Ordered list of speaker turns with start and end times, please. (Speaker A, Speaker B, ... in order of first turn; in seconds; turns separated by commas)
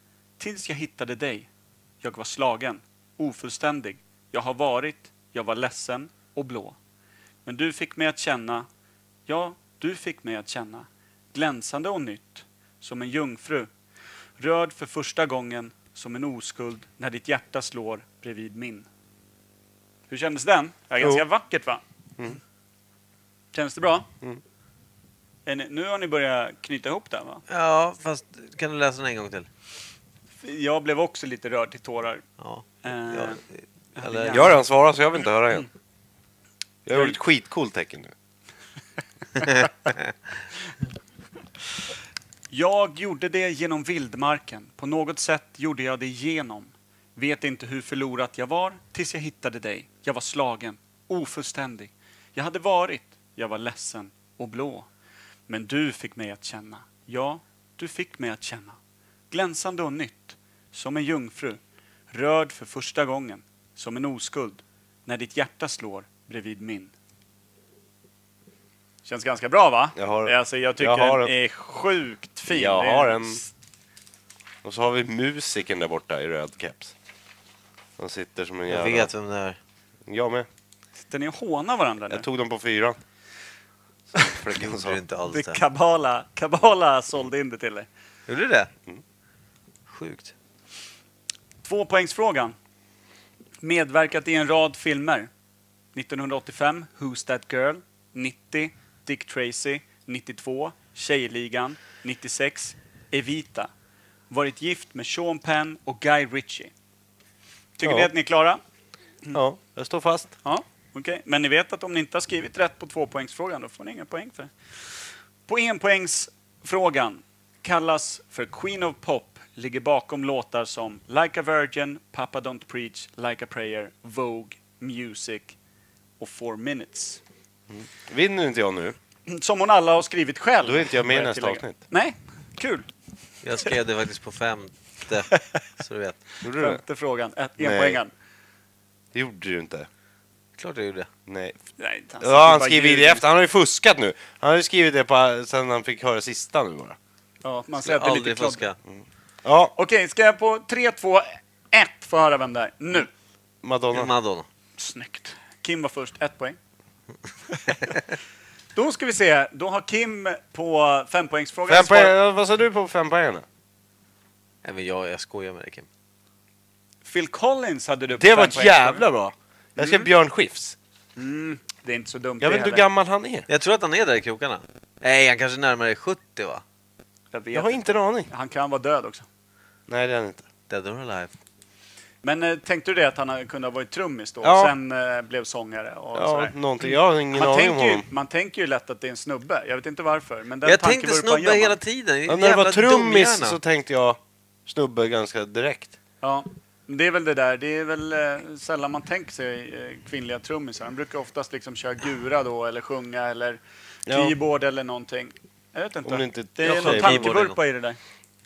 Speaker A: 0.4-1.5, Speaker A: 2.0-6.8, Speaker A: 7.4-8.7, Speaker A: 9.3-13.7, Speaker A: 14.4-18.9, Speaker A: 20.1-21.8, Speaker A: 23.5-24.1, Speaker A: 25.4-27.4, Speaker B: 27.5-29.5, Speaker A: 30.4-32.2, Speaker B: 32.4-34.5, Speaker A: 32.8-33.4, Speaker A: 33.9-34.6, Speaker C: 34.3-35.7, Speaker C: 36.9-38.1, Speaker B: 39.5-40.1, Speaker A: 42.5-54.9, Speaker A: 55.5-58.8, Speaker A: 59.3-61.6, Speaker A: 62.1-66.9, Speaker A: 69.0-73.5, Speaker C: 70.0-71.3, Speaker C: 72.5-73.4, Speaker C: 74.6-76.9, Speaker C: 78.0-79.1, Speaker B: 78.7-79.6, Speaker C: 80.1-80.5, Speaker A: 81.1-82.2, Speaker C: 82.1-83.0, Speaker C: 84.1-85.0, Speaker B: 84.5-85.6, Speaker A: 85.3-87.9, Speaker B: 88.3-88.7, Speaker B: 89.9-90.3, Speaker A: 91.6-92.5, Speaker A: 93.6-95.3, Speaker A: 95.9-103.7, Speaker A: 104.3-106.7, Speaker A: 107.8-108.6, Speaker C: 107.8-108.1, Speaker C: 109.3-110.3, Speaker A: 110.4-125.5, Speaker A: 126.2-127.2, Speaker C: 127.7-128.9, Speaker A: 129.3-132.9, Speaker C: 130.6-131.8, Speaker B: 133.4-136.2, Speaker C: 136.4-136.8, Speaker A: 136.5-138.1, Speaker C: 137.6-138.0, Speaker C: 139.1-139.9, Speaker B: 140.6-141.1, Speaker C: 141.3-141.5, Speaker A: 141.8-143.2, Speaker C: 142.2-147.0, Speaker A: 147.4-148.7, Speaker B: 147.8-148.8, Speaker C: 148.9-149.7, Speaker A: 149.8-153.1, Speaker C: 153.6-154.1, Speaker B: 153.9-154.5, Speaker A: 154.8-156.6, Speaker A: 157.5-158.0, Speaker A: 158.8-162.1, Speaker C: 161.7-163.4, Speaker B: 164.6-165.9, Speaker A: 167.0-169.0, Speaker C: 168.2-170.8, Speaker A: 169.8-170.1, Speaker A: 171.2-172.8, Speaker C: 172.4-173.5, Speaker B: 173.5-176.6, Speaker A: 177.3-179.2, Speaker C: 177.5-178.3, Speaker C: 179.9-180.4, Speaker B: 180.7-181.3, Speaker A: 182.2-191.8, Speaker C: 184.4-184.7, Speaker C: 186.1-188.1, Speaker B: 190.6-193.6, Speaker C: 192.3-195.9, Speaker A: 196.2-208.0, Speaker C: 204.1-204.3, Speaker C: 206.0-207.3, Speaker B: 206.6-207.6